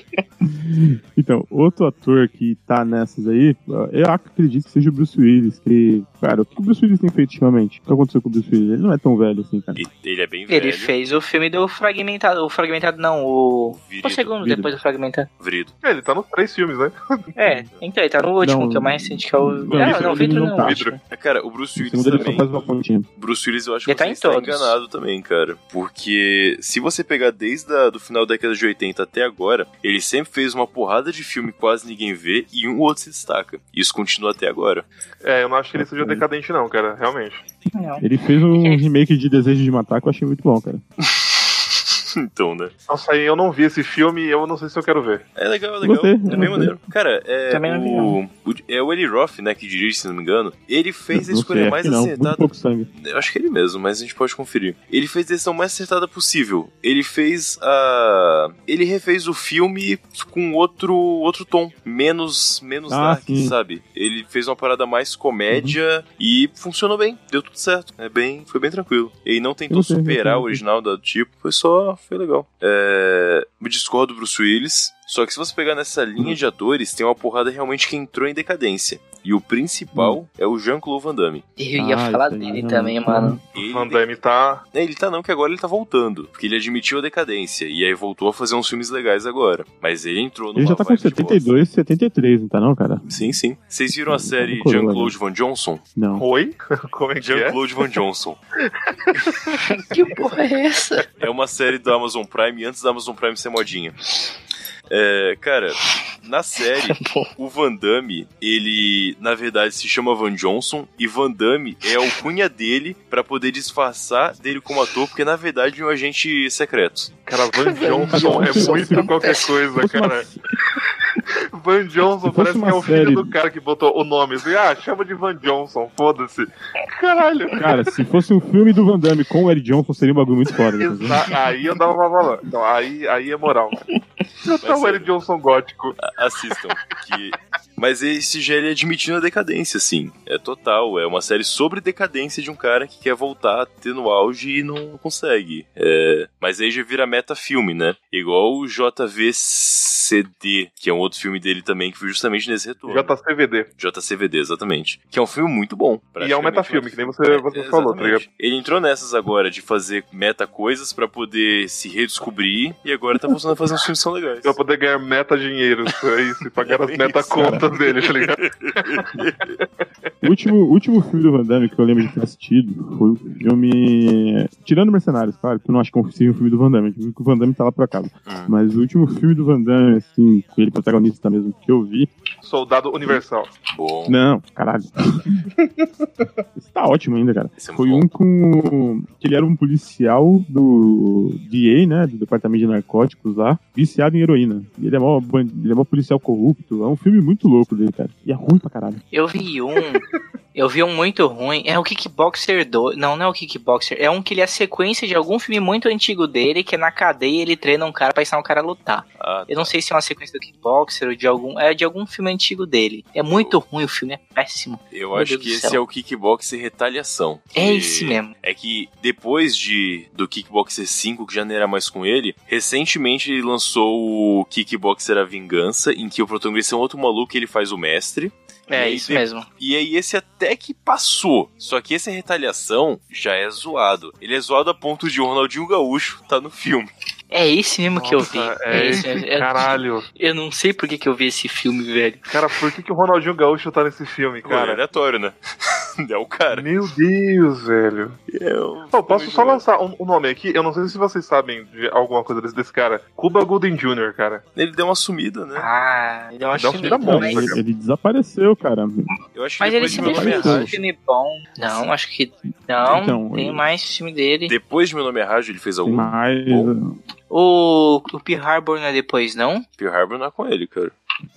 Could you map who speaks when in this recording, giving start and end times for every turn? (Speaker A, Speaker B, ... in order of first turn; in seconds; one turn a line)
Speaker A: 0.4-9.8
Speaker B: 9.8-10.9
Speaker C: 10.5-15.3
Speaker B: 13.7-14.6
Speaker B: 15.4-15.7
Speaker D: 15.8-17.3
Speaker C: 17.4-21.0
Speaker A: 18.4-20.9
Speaker D: 19.8-21.0
Speaker B: 21.1-22.6
Speaker A: 21.8-23.1
Speaker B: 23.2-34.8
Speaker C: 23.9-24.8
Speaker D: 35.2-37.4
Speaker A: 35.7-36.2
Speaker C: 37.7-38.8
Speaker A: 38.0-40.8
Speaker B: 41.0-42.7
Speaker D: 42.9-45.2
Speaker B: 45.4-81.4
Speaker A: 45.8-46.8
Speaker C: 47.5-48.2
Speaker A: 51.1-52.9
Speaker A: 62.9-63.5
Speaker A: 65.5-65.8
Speaker A: 69.7-70.6
Speaker C: 81.6-83.4
Speaker A: 81.8-83.4
Speaker B: 83.5-84.1
Speaker D: 83.6-84.6
Speaker B: 84.7-91.5
Speaker A: 90.5-93.1
Speaker B: 93.1-95.8
Speaker A: 94.1-95.1
Speaker A: 96.0-96.2
Speaker D: 96.1-97.6
Speaker B: 97.2-98.4
Speaker D: 99.0-99.6
Speaker C: 99.6-101.0
Speaker B: 101.2-104.0
Speaker B: 104.9-117.1
Speaker C: 106.9-107.3
Speaker D: 117.3-120.2
Speaker C: 117.6-119.6
Speaker A: 118.1-119.2
Speaker A: 119.7-120.4
Speaker D: 121.5-127.9
Speaker A: 122.2-123.3
Speaker A: 127.6-131.3
Speaker D: 130.8-133.8
Speaker D: 134.4-136.0
Speaker B: 134.6-135.1
Speaker B: 136.0-153.1
Speaker D: 152.9-153.7
Speaker B: 153.8-164.6
Speaker D: 156.2-158.2
Speaker D: 164.4-169.2
Speaker B: 166.6-169.5
Speaker A: 167.3-167.6
Speaker A: 170.2-182.1
Speaker B: 178.3-178.5
Speaker D: 182.4-183.5
Speaker B: 183.7-184.2
Speaker A: 184.1-185.4
Speaker A: 186.5-199.0
Speaker B: 187.6-188.1
Speaker C: 199.1-200.0
Speaker C: 200.5-215.8
Speaker B: 209.2-209.7
Speaker B: 213.3-213.6
Speaker B: 214.9-236.9
Speaker C: 217.5-218.3
Speaker C: 228.7-229.4
Speaker C: 237.3-242.3
Speaker D: 238.0-240.1
Speaker D: 242.3-244.8
Speaker B: 244.4-245.3
Speaker B: 246.0-246.7
Speaker D: 246.5-248.2
Speaker B: 248.3-249.6
Speaker D: 248.9-254.4
Speaker B: 254.6-255.7
Speaker C: 255.6-257.6
Speaker D: 256.5-257.6
Speaker A: 257.0-259.1
Speaker B: 259.3-260.8
Speaker C: 259.6-264.5
Speaker A: 259.9-260.8
Speaker A: 262.8-263.6
Speaker B: 264.5-266.7
Speaker A: 265.8-266.9
Speaker C: 267.3-269.6
Speaker B: 269.8-270.9